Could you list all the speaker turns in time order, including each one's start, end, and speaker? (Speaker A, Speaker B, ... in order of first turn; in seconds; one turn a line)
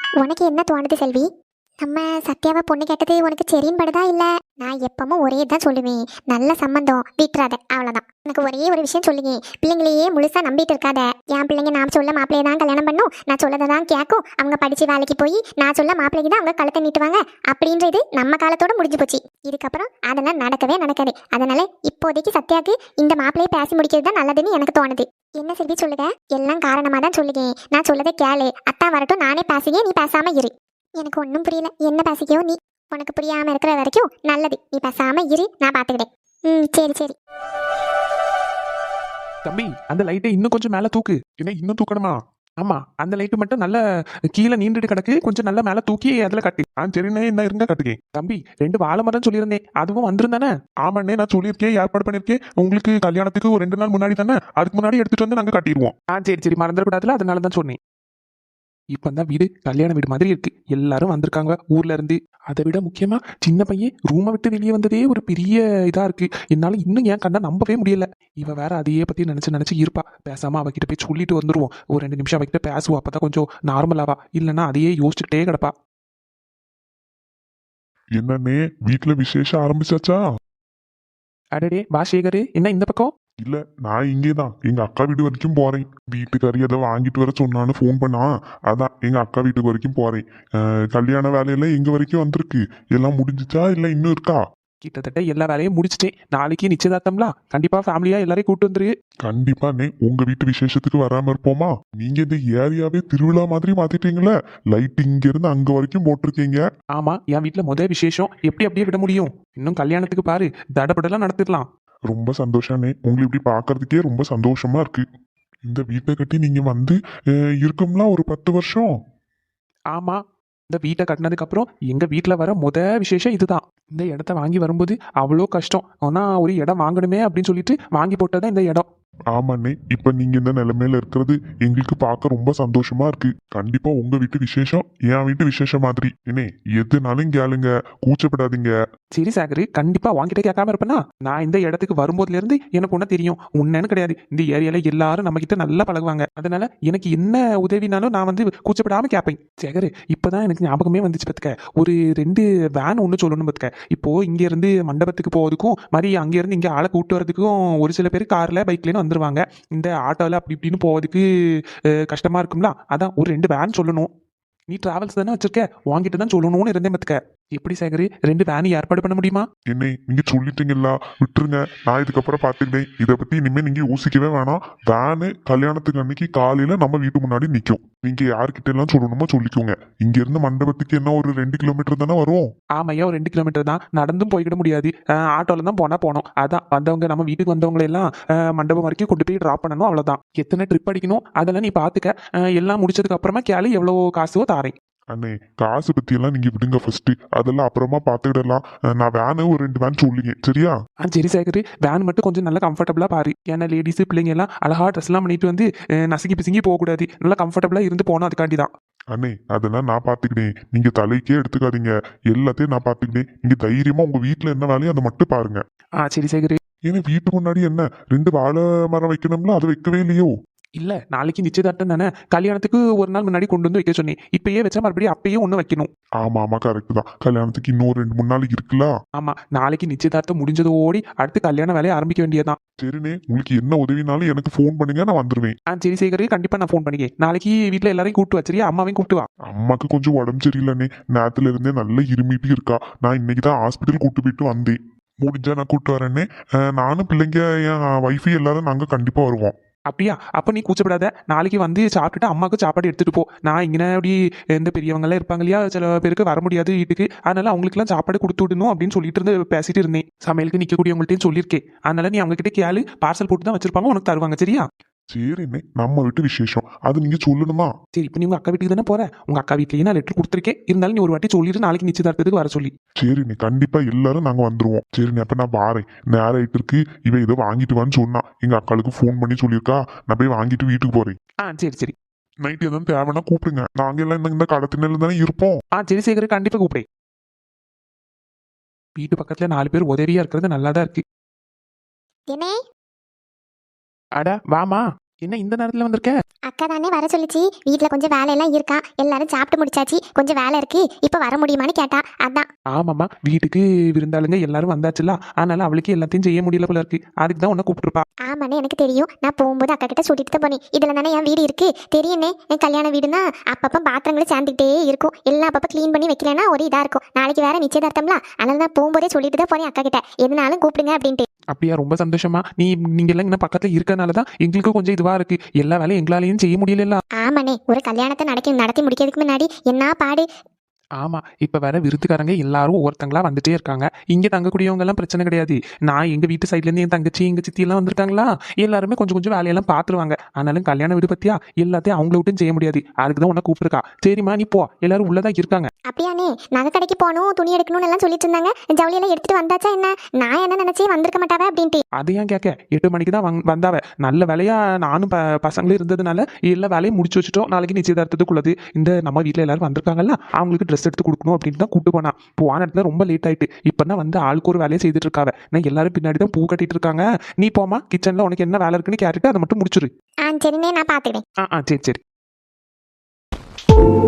Speaker A: 0.2-1.3
Speaker A: 1.8-37.2
Speaker B: 39.5-43.8
Speaker B: 44.3-57.8
Speaker B: 58.9-75.7
Speaker C: 78.2-80.2
Speaker B: 81.5-83.1
Speaker C: 83.4-94.4
Speaker B: 94.8-98.9
Speaker C: 99.3-106.6
Speaker B: 107.0-111.7
Speaker C: 112.1-115.0
Speaker C: 115.7-117.0
Speaker C: 117.6-118.9
Speaker B: 119.9-120.2
Speaker B: 120.7-128.9
Speaker C: 129.3-138.7
Speaker B: 139.2-161.2
Speaker B: 162.1-164.1
Speaker B: 164.7-169.5
Speaker C: 169.7-182.5
Speaker B: 182.8-194.7
Speaker C: 195.1-200.8
Speaker B: 201.0-208.7
Speaker C: 209.1-215.6
Speaker B: 216.0-216.6
Speaker C: 216.9-220.3
Speaker B: 220.8-225.9
Speaker C: 226.2-228.9
Speaker B: 229.2-232.6
Speaker C: 232.8-235.5
Speaker B: 235.7-239.3
Speaker C: 239.5-249.6
Speaker B: 249.9-264.6
Speaker C: 265.1-267.7
Speaker B: 267.9-272.7
Speaker C: 273.0-281.2
Speaker B: 281.4-281.9
Speaker C: 282.4-285.6
Speaker B: 285.8-286.8
Speaker B: 289.0-291.0
Speaker A: 292.3-292.6
Speaker B: 294.2-296.1
Speaker A: 296.5-302.5
Speaker B: 302.7-308.1
Speaker A: 308.3-321.3
Speaker B: 321.5-327.0
Speaker A: 327.2-330.3
Speaker B: 331.0-345.7
Speaker A: 345.9-351.8
Speaker B: 352.0-369.9
Speaker A: 370.2-371.2
Speaker B: 371.4-372.0